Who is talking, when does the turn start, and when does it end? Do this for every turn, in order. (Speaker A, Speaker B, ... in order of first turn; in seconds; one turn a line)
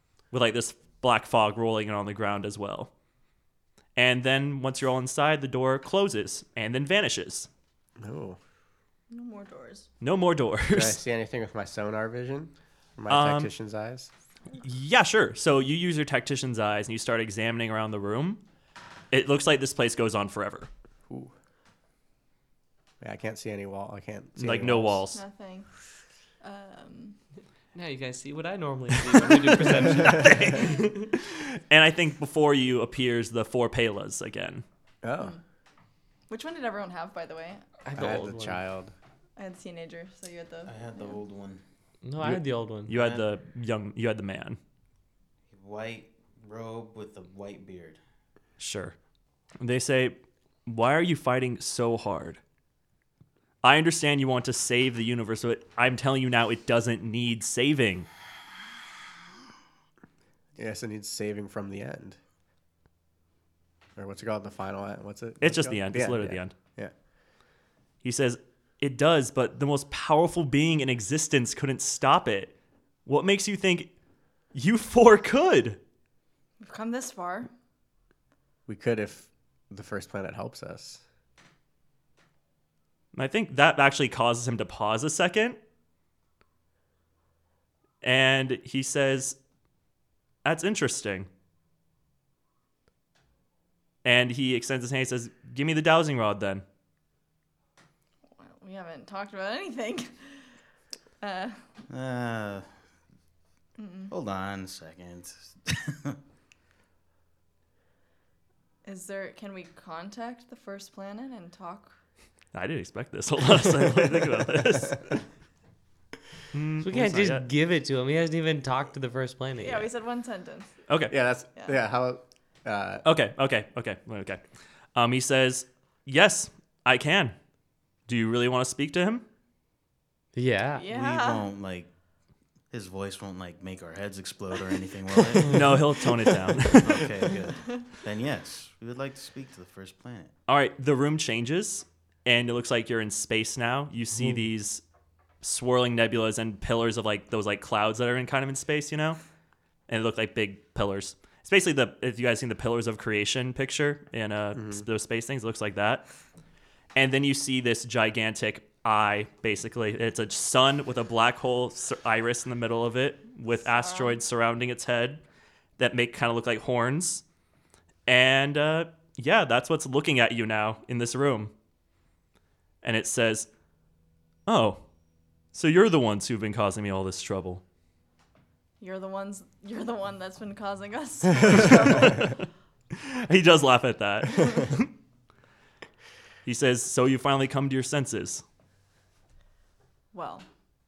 Speaker A: 0.3-2.9
Speaker A: 4.0-7.5
Speaker B: 8.0-8.4
Speaker C: 9.1-9.9
Speaker A: 10.0-11.0
Speaker B: 10.7-14.1
Speaker A: 13.1-13.5
Speaker A: 14.6-18.4
Speaker A: 19.1-20.7
Speaker B: 23.0-25.0
Speaker A: 24.4-25.2
Speaker C: 25.1-25.7
Speaker C: 26.4-27.2
Speaker D: 27.7-31.1
Speaker A: 29.1-34.6
Speaker B: 35.0-35.4
Speaker C: 36.3-37.6
Speaker D: 37.8-38.6
Speaker B: 38.0-38.9
Speaker C: 39.4-41.2
Speaker E: 40.7-41.6
Speaker D: 42.0-43.0
Speaker A: 42.2-44.6
Speaker E: 45.5-48.0
Speaker A: 48.6-49.0
Speaker A: 49.6-52.4
Speaker A: 53.6-58.1
Speaker B: 60.6-62.2
Speaker B: 64.0-66.9
Speaker A: 65.4-66.5
Speaker A: 68.0-72.5
Speaker A: 73.1-73.9
Speaker A: 74.5-75.8
Speaker C: 76.6-77.5
Speaker B: 78.7-81.0
Speaker A: 83.1-85.6
Speaker A: 88.0-89.4
Speaker A: 90.4-91.3
Speaker A: 94.0-96.6
Speaker C: 98.4-100.5
Speaker C: 101.2-101.7
Speaker E: 101.9-102.7
Speaker C: 103.8-104.1
Speaker E: 104.1-106.2
Speaker C: 108.8-112.0
Speaker A: 112.5-115.2
Speaker A: 116.5-117.5
Speaker D: 116.8-119.9
Speaker C: 119.6-120.7
Speaker A: 120.9-121.1
Speaker B: 121.1-123.0
Speaker A: 123.0-124.4
Speaker A: 125.0-127.3
Speaker A: 128.1-129.2
Speaker D: 130.3-130.9
Speaker C: 130.7-131.5
Speaker E: 130.9-131.9
Speaker E: 132.7-135.8
Speaker D: 135.4-135.6
Speaker A: 135.5-137.2
Speaker E: 136.3-140.3
Speaker A: 140.5-144.8
Speaker A: 145.4-149.2
Speaker A: 149.9-156.1
Speaker B: 154.6-154.8
Speaker A: 156.9-165.2
Speaker C: 163.7-164.2
Speaker A: 165.8-167.2
Speaker A: 168.1-171.5
Speaker A: 172.8-173.5
Speaker A: 174.5-174.8
Speaker A: 175.5-177.6
Speaker C: 178.8-182.3
Speaker A: 181.6-182.3
Speaker A: 182.9-184.9
Speaker A: 186.4-188.4
Speaker C: 190.1-190.5